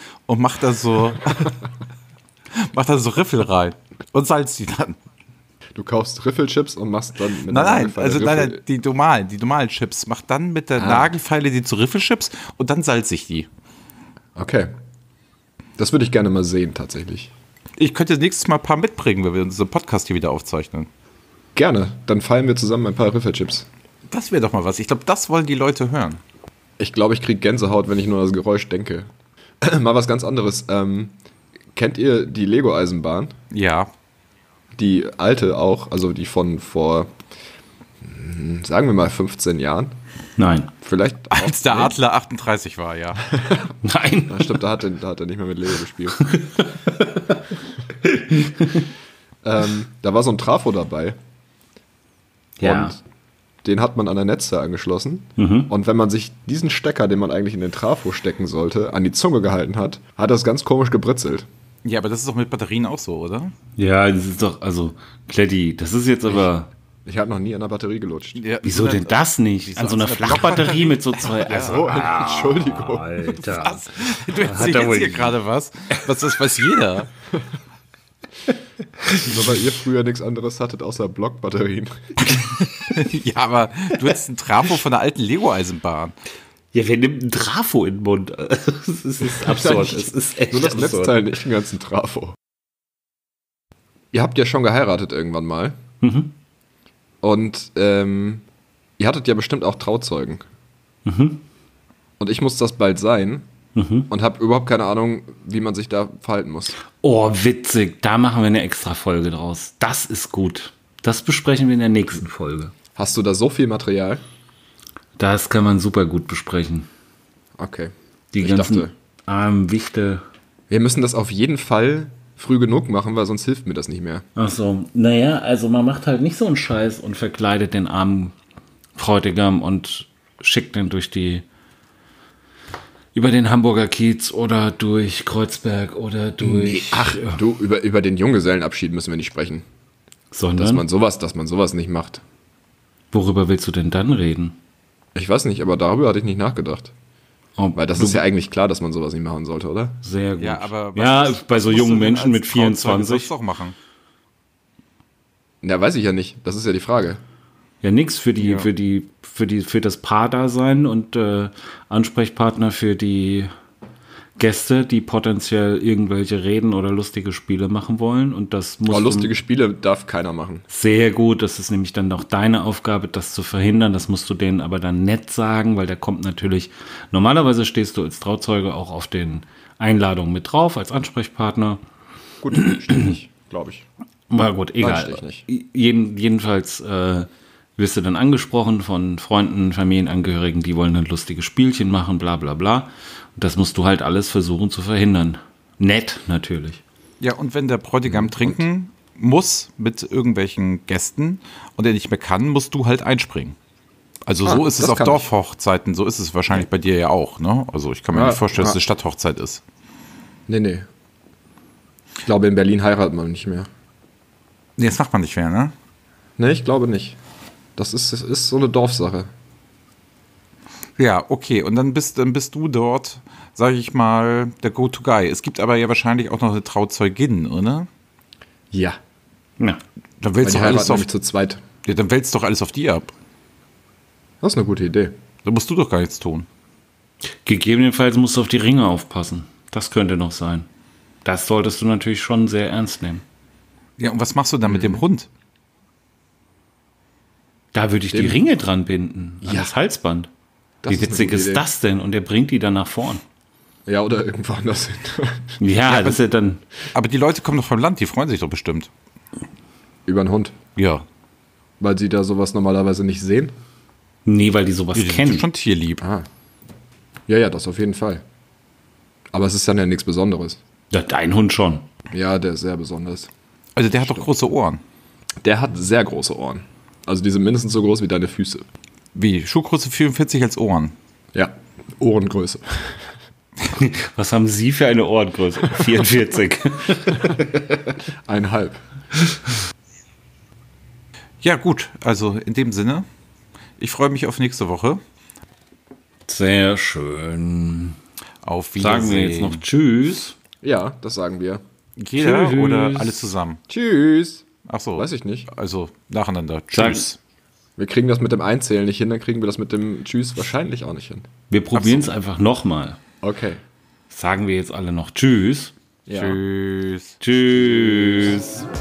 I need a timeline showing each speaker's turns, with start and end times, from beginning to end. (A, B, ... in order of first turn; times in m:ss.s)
0:00.3-0:01.6 A
0:02.5-0:05.0 A
0:05.7-0:08.6 B
0:07.5-0:13.5 A
0:10.8-0:11.1 B
0:14.4-0:14.7 B
0:15.8-0:17.3 B
0:17.8-0:20.9 A
0:21.6-0:23.7 B
0:24.1-0:26.2 A
0:26.8-0:29.1 B
0:29.6-0:31.2 B
0:31.7-0:33.3 B
0:33.5-0:33.9 A
0:34.8-0:37.1 B
0:38.0-0:40.0 B
0:40.4-0:40.7 C
0:40.8-0:41.9 B
0:41.3-0:43.3 A
0:43.8-0:44.6 C
0:44.3-0:46.3 B
0:46.2-0:47.3 C
0:48.0-0:48.8 C
0:49.4-0:51.2 B
0:52.6-0:52.9 C
0:52.6-0:53.0 B
0:53.6-1:01.5 B
0:55.4-0:55.7 C
1:01.8-1:03.5 A
1:03.8-1:06.7 C
1:07.0-1:08.4 B
1:08.4-1:11.8 A
1:08.6-1:15.4 C
1:11.5-1:13.3 B
1:13.5-1:17.1 A
1:19.2-1:22.0 B
1:22.2-1:26.1 A
1:26.7-1:31.2 C
1:29.4-1:32.4 B
1:34.1-1:35.8 B
1:36.0-1:36.3 C
1:37.2-1:38.4 B
1:39.0-1:40.4 B
1:41.0-1:41.4 C
1:42.2-1:43.5 B
1:43.7-1:44.1 C
1:44.1-1:46.8 B
1:47.0-1:52.7 C
1:53.0-1:54.2 B
1:55.2-1:56.9 C
1:57.6-1:58.9 B
1:58.3-2:00.2 C
2:00.7-2:04.2 B
2:04.4-2:08.3 C
2:09.0-2:11.4 C
2:13.1-2:17.4 C
2:16.4-2:19.6 B
2:20.3-2:20.8 C
2:20.6-2:22.2 B
2:23.1-2:24.6 C
2:25.1-2:26.9 B
2:27.6-2:28.2 C
2:27.7-2:30.0 B
2:30.0-2:33.3 C
2:30.4-2:33.7 A
2:35.6-2:37.2 B
2:37.8-2:43.5 C
2:38.4-2:38.7 A
2:44.4-2:49.3 C
2:48.9-2:50.6 B
2:50.7-3:01.8 C
3:02.4-3:03.8 B
3:04.3-3:16.8 C
3:04.8-3:05.4 B
3:17.2-3:23.6 A
3:18.0-3:18.6 B
3:24.2-3:29.6 A
3:24.4-3:25.3 B
3:28.1-3:28.8 B
3:30.5-3:30.9 B
3:32.2-3:33.7 B
3:34.8-3:35.7 A
3:36.4-3:37.2 B
3:37.8-3:39.3 B
3:41.0-3:47.9 A
3:48.7-3:49.0 B
3:50.2-3:51.1 A
3:50.4-3:51.6 B
3:51.8-3:53.1 A
3:54.4-3:55.2 B
3:55.4-3:56.5 A
3:57.4-4:00.7 C
4:01.2-4:03.2 C
4:04.0-4:05.3 A
4:04.7-4:05.0 B
4:07.7-4:10.3 C
4:08.1-4:08.4 B
4:09.4-4:09.7 B
4:10.8-4:11.7 B
4:10.8-4:13.2 C
4:13.8-4:15.6 B
4:15.6-4:16.6 C
4:15.9-4:16.2 A
4:16.9-4:18.9 A
4:20.0-4:20.5 B
4:20.8-4:21.0 A
4:21.8-4:23.5 B
4:24.2-4:25.5 C
4:24.9-4:26.0 A
4:26.0-4:26.3 B
4:27.3-4:28.2 B
4:29.3-4:30.6 B
4:30.9-4:31.9 C
4:32.1-4:33.3 B
4:33.8-4:34.8 A
4:34.0-4:34.3 B
4:35.4-4:38.6 B
4:39.1-4:40.9 A
4:41.3-4:43.1 B
4:43.7-4:47.6 C
4:48.2-4:48.8 B
4:51.4-4:53.1 A
4:53.8-4:55.0 A
4:56.3-4:58.0 C
4:58.4-4:59.6 A
4:58.8-5:00.4 C
5:00.6-5:01.6 B
5:02.0-5:03.6 A
5:02.2-5:03.3 C
5:03.7-5:04.4 B
5:04.7-5:07.2 A
5:05.0-5:05.5 B
5:06.7-5:07.0 C
5:07.8-5:11.2 B
5:11.5-5:13.0 C
5:11.7-5:12.1 A
5:13.2-5:13.6 B
5:14.1-5:15.7 C
5:16.0-5:16.4 B
5:16.1-5:17.2 A
5:17.2-5:18.6 C